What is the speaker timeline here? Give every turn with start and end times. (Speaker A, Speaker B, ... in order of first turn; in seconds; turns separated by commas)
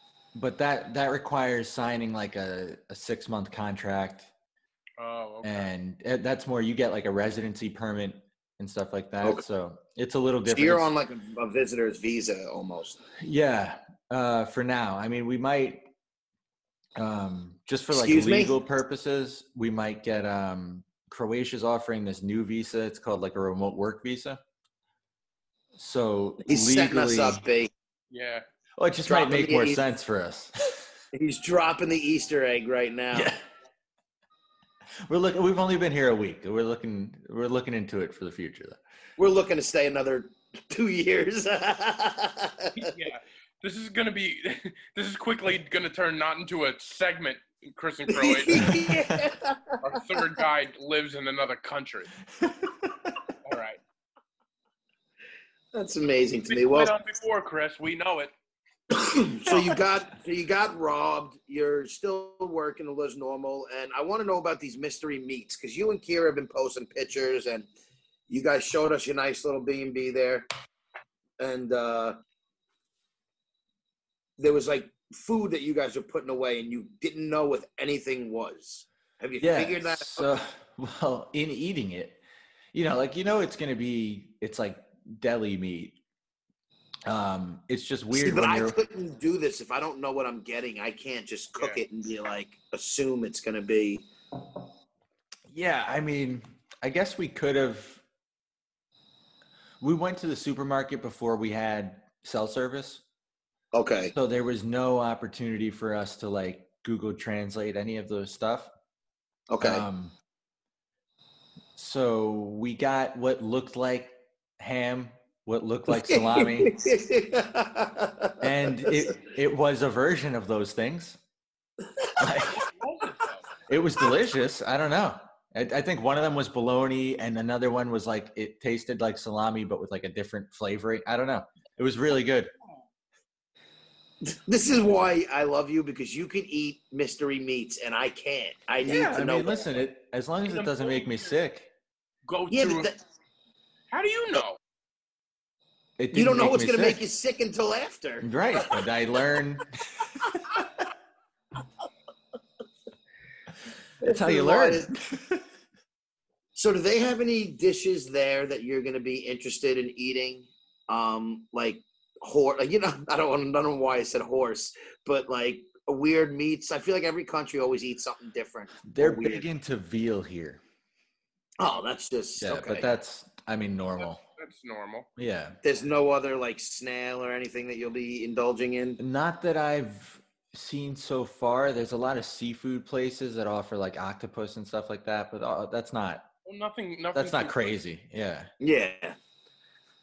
Speaker A: 0.3-4.3, Speaker B: 5.0-5.7, Speaker A: 5.4-10.9, Speaker C: 10.4-13.0, Speaker A: 13.2-15.9, Speaker A: 17.0-24.4, Speaker C: 17.9-18.5, Speaker A: 25.8-27.4, Speaker C: 26.4-27.7, Speaker B: 28.1-28.4, Speaker A: 28.8-30.8, Speaker C: 29.1-29.8, Speaker C: 31.1-33.3, Speaker A: 33.1-33.4, Speaker A: 35.1-38.8, Speaker C: 39.2-42.9, Speaker B: 42.7-48.7, Speaker C: 48.1-49.8, Speaker A: 48.5-49.3, Speaker B: 49.8-52.1, Speaker A: 52.4-53.1, Speaker B: 53.4-53.8, Speaker C: 55.7-56.9, Speaker B: 56.5-58.3, Speaker C: 58.9-67.7, Speaker C: 68.3-70.5, Speaker C: 71.4-72.2, Speaker C: 74.4-80.3, Speaker A: 79.4-82.2, Speaker A: 82.7-86.0, Speaker A: 87.0-88.8, Speaker C: 88.1-94.1, Speaker A: 95.5-98.0, Speaker A: 99.8-103.0, Speaker C: 103.7-104.1, Speaker A: 104.1-108.7, Speaker C: 109.5-109.8, Speaker A: 109.6-110.1, Speaker A: 111.8-116.7, Speaker C: 115.9-119.1, Speaker A: 118.4-121.2, Speaker A: 122.2-122.7, Speaker B: 122.5-123.5, Speaker A: 123.7-132.5, Speaker C: 134.2-139.7, Speaker A: 138.8-141.7, Speaker B: 140.4-141.3, Speaker B: 142.3-142.9, Speaker C: 142.5-143.0, Speaker B: 143.9-144.6, Speaker A: 146.0-147.0, Speaker C: 146.1-148.3, Speaker A: 148.2-150.7, Speaker C: 154.0-154.9, Speaker A: 154.0-155.4, Speaker C: 156.5-169.4, Speaker A: 168.9-170.6, Speaker C: 171.6-172.9, Speaker A: 172.4-174.2, Speaker B: 174.0-175.1, Speaker A: 175.2-175.6, Speaker C: 175.6-179.0, Speaker A: 179.0-186.3, Speaker B: 186.4-187.6, Speaker A: 187.1-188.5, Speaker C: 188.6-189.2